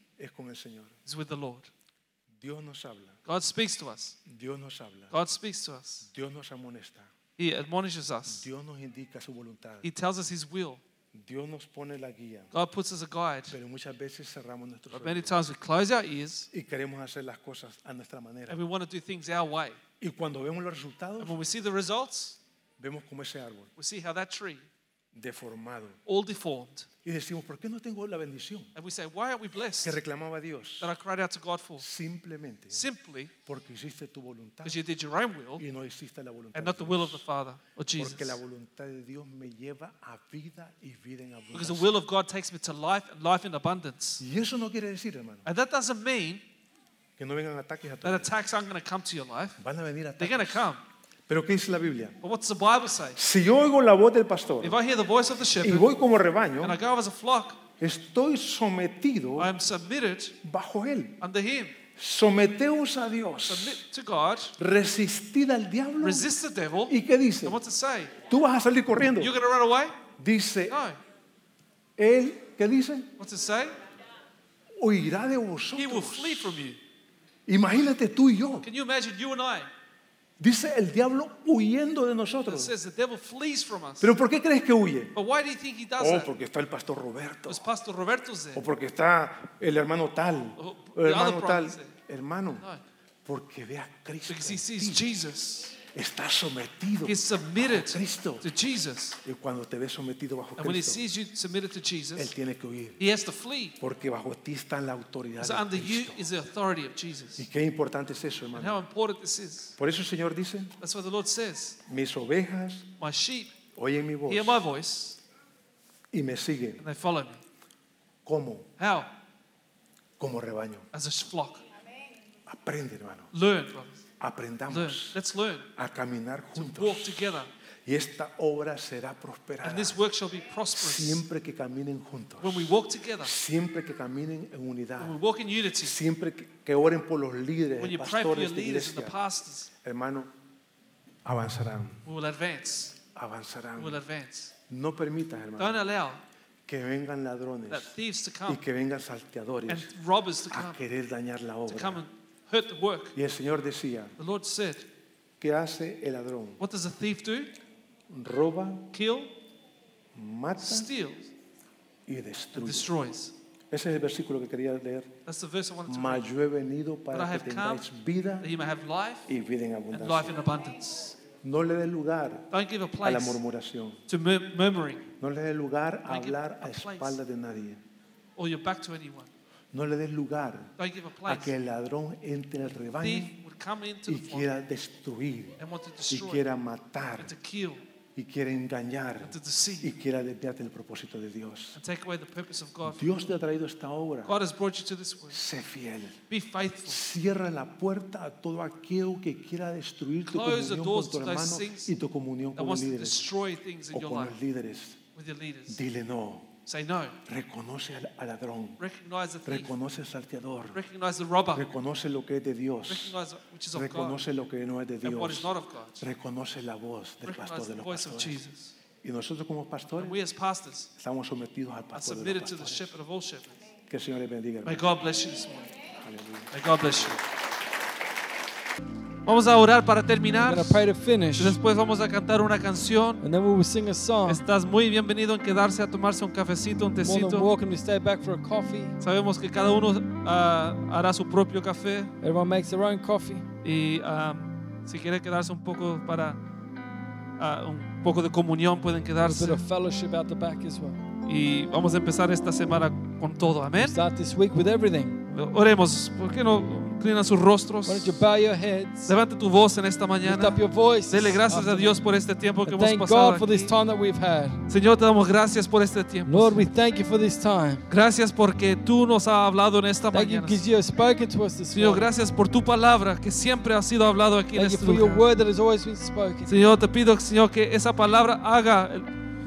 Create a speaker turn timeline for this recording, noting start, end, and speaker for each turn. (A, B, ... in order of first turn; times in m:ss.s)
0:00.2-0:01.0 A
0:01.1-0:01.7 B
0:02.3-0:03.2 A
0:03.3-0:04.2 B
0:04.3-0:05.2 A
0:05.1-0:06.1 B
0:06.0-0:07.1 A
0:07.4-0:08.5 B
0:08.3-0:09.9 A
0:09.8-0:10.8 B
0:11.1-0:12.5 A
0:12.5-0:13.6 B
0:13.5-0:15.4 A
0:14.9-0:16.5 B
0:16.5-0:18.6 A
0:18.5-0:19.8 B
0:20.0-0:21.4 A
0:21.2-0:22.4 B
0:22.8-0:23.7 A
0:23.8-0:24.7 B
0:25.1-0:26.0 A
0:26.1-0:26.9 B
0:27.0-0:28.7 A
0:28.8-0:30.0 B
0:29.8-0:30.9 A
0:30.8-0:31.9 B
0:31.8-0:32.9 A
0:32.7-0:33.3 B
0:33.4-0:34.8 A
0:34.6-0:35.6 B
0:35.6-0:37.2 A
0:36.5-0:38.4 B
0:38.0-0:42.0 A
0:41.5-0:44.2 B
0:44.2-0:45.4 A
0:45.4-0:46.4 B
0:47.2-0:48.3 A
0:48.0-0:49.6 B
0:49.6-0:50.7 A
0:50.2-0:50.8 B
0:51.3-0:52.2 A
0:52.2-0:53.2 B
0:53.2-0:54.8 A
0:54.6-0:55.9 B
0:55.6-0:56.8 A
0:56.6-0:57.6 B
0:57.8-0:59.5 A
0:59.4-1:00.4 B
1:00.4-1:01.2 A
1:01.2-1:01.8 B
1:01.9-1:03.8 A
1:03.5-1:04.6 B
1:04.6-1:06.3 A
1:06.0-1:08.2 B
1:06.9-1:07.6 A
1:08.2-1:09.3 A
1:09.2-1:10.0 B
1:10.2-1:10.8 A
1:10.7-1:11.0 B
1:12.0-1:13.1 A
1:13.2-1:13.8 B
1:14.8-1:16.6 A
1:15.8-1:16.8 B
1:17.5-1:18.7 A
1:18.6-1:19.7 B
1:20.4-1:22.7 A
1:22.5-1:24.1 B
1:24.0-1:25.2 A
1:25.2-1:26.3 B
1:26.0-1:27.6 A
1:27.5-1:28.6 B
1:28.6-1:32.7 A
1:30.6-1:32.0 B
1:33.2-1:35.0 A
1:34.3-1:35.8 B
1:35.8-1:38.5 A
1:37.0-1:39.2 B
1:39.2-1:41.0 A
1:40.6-1:42.3 B
1:42.2-1:43.0 A
1:43.0-1:43.8 B
1:43.8-1:46.2 A
1:45.4-1:47.5 B
1:47.4-1:48.8 A
1:48.6-1:49.8 B
1:49.8-1:50.8 A
1:50.8-1:51.8 B
1:51.9-1:52.9 A
1:53.0-1:53.6 B
1:53.8-1:54.7 A
1:54.3-1:55.2 B
1:56.1-1:56.8 A
1:56.8-1:57.4 B
1:58.2-1:58.7 A
1:58.8-1:59.1 B
2:00.2-2:00.9 A
2:00.9-2:01.6 B
2:02.5-2:03.3 A
2:03.3-2:04.0 B
2:04.2-2:05.2 A
2:04.7-2:05.7 B
2:05.8-2:10.0 A
2:06.6-2:07.5 B
2:09.6-2:11.2 B
2:10.8-2:15.2 A
2:12.4-2:13.3 B
2:15.0-2:16.0 B
2:15.8-2:19.2 A
2:17.8-2:19.7 B
2:19.8-2:20.3 A
2:21.2-2:22.0 A
2:22.0-2:23.0 B
2:23.1-2:24.0 A
2:23.8-2:24.5 B
2:24.7-2:25.8 A
2:25.6-2:26.2 B
2:26.7-2:28.0 A
2:27.7-2:28.6 B
2:28.5-2:29.9 A
2:29.7-2:30.8 B
2:30.5-2:32.0 A
2:31.7-2:33.2 B
2:33.2-2:34.2 A
2:34.2-2:34.9 B
2:35.4-2:36.6 A
2:36.6-2:37.6 B
2:38.1-2:38.9 A
2:38.9-2:39.3 B
2:40.1-2:40.9 A
2:40.6-2:41.3 B
2:42.1-2:42.9 A
2:42.6-2:43.3 B
2:43.7-2:45.1 A
2:45.3-2:46.3 B
2:45.9-2:48.5 A
2:47.1-2:47.9 B
2:48.4-2:49.3 B
2:49.3-2:50.4 A
2:49.9-2:51.2 B
2:51.4-2:52.5 A
2:52.5-2:53.4 B
2:53.0-2:54.0 A
2:54.1-2:55.1 B
2:55.2-2:57.8 A
2:56.1-2:57.2 B
2:58.4-2:59.3 B
2:59.7-3:00.7 A
3:00.8-3:01.5 B
3:01.2-3:03.4 A
3:03.0-3:04.5 B
3:04.1-3:07.3 A
3:05.6-3:06.4 B
3:07.2-3:07.8 B
3:08.2-3:11.8 A
3:09.2-3:09.9 B
3:11.8-3:13.0 B
3:12.8-3:14.4 A
3:14.2-3:15.4 B
3:15.3-3:16.2 A
3:16.3-3:17.0 B
3:16.9-3:23.2 A
3:20.3-3:21.9 B
3:22.6-3:24.4 B
3:23.9-3:25.0 A
3:25.1-3:25.8 B
3:25.7-3:26.5 A
3:26.7-3:27.2 B
3:27.3-3:28.8 A
3:28.8-3:29.7 B
3:29.5-3:30.8 A
3:30.7-3:31.7 B
3:31.5-3:33.2 A
3:32.9-3:34.2 B
3:33.7-3:38.4 A
3:35.0-3:36.1 B
3:37.3-3:38.8 B
3:39.0-3:40.2 A
3:40.0-3:40.9 B
3:41.0-3:43.0 A
3:41.9-3:43.6 B
3:43.9-3:44.8 A
3:44.6-3:45.7 B
3:45.9-3:47.2 A
3:46.5-3:47.2 B
3:49.3-3:53.2 B
3:50.4-3:51.6 C
3:53.2-3:54.4 C
3:54.3-3:57.5 B
3:57.0-3:59.0 C
3:59.0-4:02.1 B
4:02.2-4:03.5 C
4:03.6-4:06.4 B
4:07.4-4:09.6 B
4:09.2-4:11.0 C
4:11.3-4:14.0 B
4:13.8-4:15.2 C
4:15.3-4:18.2 B
4:17.9-4:19.2 C
4:19.1-4:23.7 B
4:20.2-4:22.0 C
4:22.7-4:24.6 C
4:24.7-4:26.6 B
4:26.3-4:27.9 C
4:27.9-4:30.6 B
4:30.1-4:32.1 C
4:31.7-4:35.3 B
4:34.5-4:36.7 C
4:36.5-4:39.1 B